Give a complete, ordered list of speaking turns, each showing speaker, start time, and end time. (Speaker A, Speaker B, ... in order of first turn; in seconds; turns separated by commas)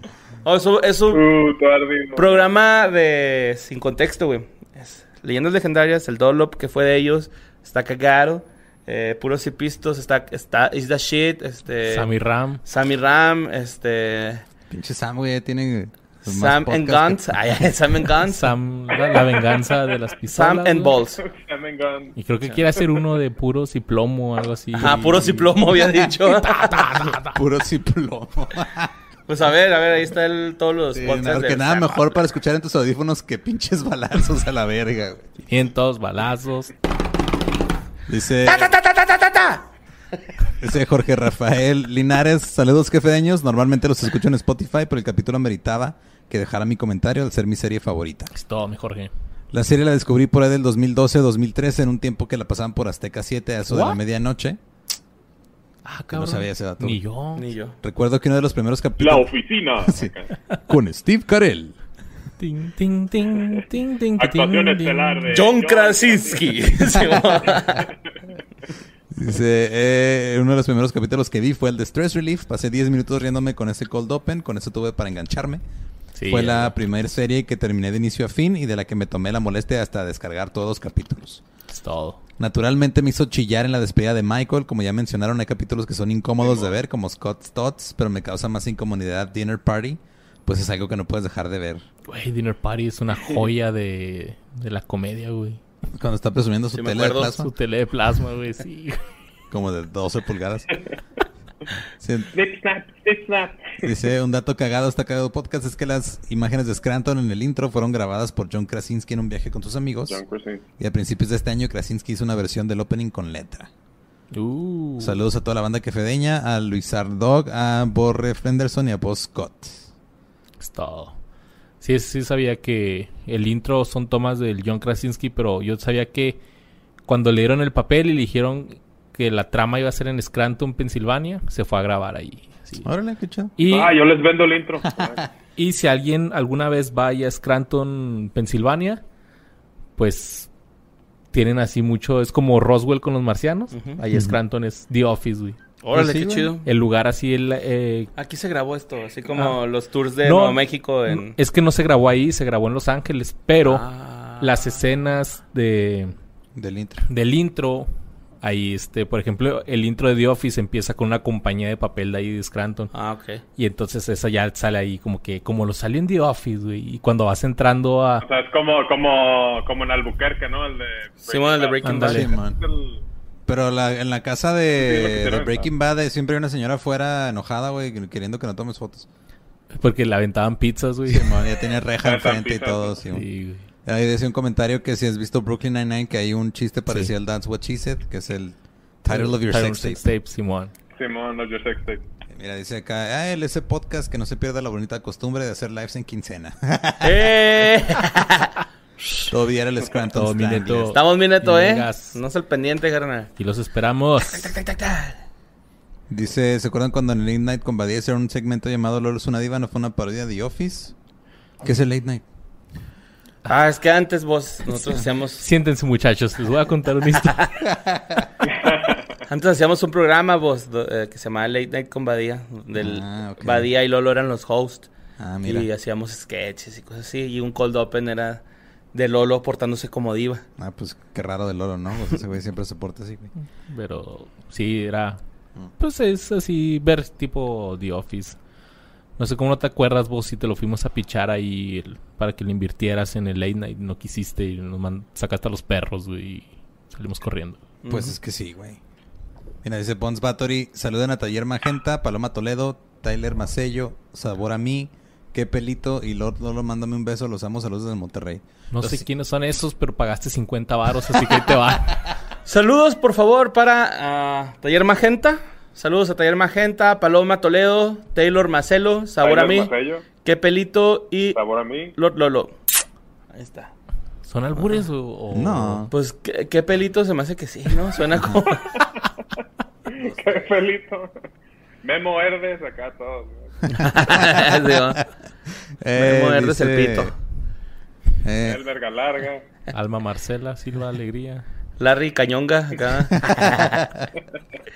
Speaker A: 0.4-1.2, Speaker B: 1.1-2.5, Speaker A: 2.1-12.1, Speaker C: 11.8-12.6, Speaker A: 12.6-14.4, Speaker D: 14.7-17.7, Speaker A: 16.2-18.5, Speaker C: 18.2-21.0, Speaker B: 18.9-19.8, Speaker A: 20.3-21.2, Speaker B: 21.2-22.1, Speaker C: 22.1-27.4, Speaker D: 24.8-25.5, Speaker A: 24.8-27.0, Speaker D: 27.3-28.9, Speaker A: 29.3-32.1, Speaker D: 30.9-35.3, Speaker C: 35.5-36.7, Speaker D: 38.1-38.7, Speaker A: 38.4-39.6, Speaker D: 40.6-48.3, Speaker C: 48.3-49.1, Speaker D: 49.5-54.6, Speaker C: 53.7-54.0, Speaker C: 55.8-57.5, Speaker D: 56.1-57.0, Speaker A: 57.3-57.8, Speaker D: 57.8-59.3, Speaker B: 59.0-60.3, Speaker D: 59.8-60.1, Speaker D: 60.7-61.8, Speaker C: 62.4-65.3, Speaker B: 64.2-67.9, Speaker A: 65.3-67.9, Speaker D: 69.1-75.6, Speaker C: 76.1-76.7, Speaker D: 76.3-81.4, Speaker C: 81.7-82.2, Speaker D: 82.4-91.8, Speaker B: 86.4-86.7, Speaker C: 92.1-95.6, Speaker D: 95.9-97.5, Speaker A: 96.7-97.4, Speaker C: 97.3-99.0, Speaker D: 99.5-100.7, Speaker D: 102.0-102.3, Speaker B: 102.3-103.9, Speaker D: 103.8-110.2, Speaker B: 110.1-110.6, Speaker D: 110.8-113.7, Speaker C: 114.3-115.2, Speaker D: 115.0-119.9, Speaker C: 120.6-121.2, Speaker C: 121.8-126.4, Speaker C: 127.1-132.9, Speaker D: 132.8-133.5, Speaker C: 133.6-133.9, Speaker B: 133.6-135.2, Speaker D: 134.8-135.3, Speaker C: 135.6-139.0, Speaker C: 139.9-140.5, Speaker C: 141.3-145.6, Speaker A: 143.7-144.0, Speaker D: 144.1-144.4, Speaker A: 145.8-146.6, Speaker D: 145.9-146.5, Speaker C: 146.6-148.1, Speaker A: 148.2-151.3, Speaker C: 149.3-149.6, Speaker C: 150.2-153.9, Speaker A: 153.6-154.5, Speaker C: 154.4-156.1, Speaker D: 156.5-157.0, Speaker C: 157.1-157.9, Speaker C: 158.4-162.9, Speaker A: 162.9-163.4, Speaker C: 163.6-168.2, Speaker B: 168.2-173.0, Speaker A: 171.2-172.3, Speaker C: 171.8-172.3, Speaker D: 172.0-172.6, Speaker D: 173.4-179.1, Speaker B: 174.7-175.7, Speaker C: 179.7-181.4, Speaker D: 181.1-183.2, Speaker B: 182.0-183.0, Speaker C: 183.1-183.6, Speaker D: 183.8-190.1, Speaker C: 189.1-190.7, Speaker B: 190.9-192.0, Speaker D: 192.3-197.7, Speaker A: 197.0-198.5, Speaker D: 199.3-200.9, Speaker C: 200.1-202.2, Speaker A: 200.9-203.3, Speaker C: 203.4-204.6, Speaker A: 204.3-205.2, Speaker D: 206.1-210.9, Speaker D: 211.6-212.2, Speaker A: 213.5-215.4, Speaker C: 214.7-217.4, Speaker A: 217.3-217.6, Speaker D: 217.7-218.3, Speaker B: 218.5-219.0, Speaker A: 219.3-224.9, Speaker D: 222.8-223.7, Speaker D: 225.2-225.7, Speaker A: 225.4-230.4, Speaker D: 230.6-233.3, Speaker C: 233.6-235.2, Speaker C: 235.8-238.4, Speaker C: 239.2-247.6, Speaker A: 247.8-248.1, Speaker D: 247.9-248.8, Speaker D: 249.6-259.0, Speaker C: 258.7-262.0, Speaker A: 262.4-269.7, Speaker B: 269.2-270.0, Speaker A: 270.2-271.4, Speaker B: 271.3-271.9, Speaker A: 271.9-272.6, Speaker A: 273.3-273.7, Speaker C: 274.2-275.9, Speaker D: 275.3-275.9, Speaker A: 275.9-278.9, Speaker D: 278.2-278.4, Speaker B: 279.9-281.1, Speaker A: 279.9-280.4, Speaker B: 281.8-283.5, Speaker D: 283.7-285.1, Speaker A: 283.7-285.0, Speaker D: 285.8-287.1, Speaker A: 285.9-287.1, Speaker D: 288.2-288.6, Speaker B: 288.4-289.4, Speaker C: 289.7-291.4, Speaker A: 291.8-293.9, Speaker D: 293.2-294.1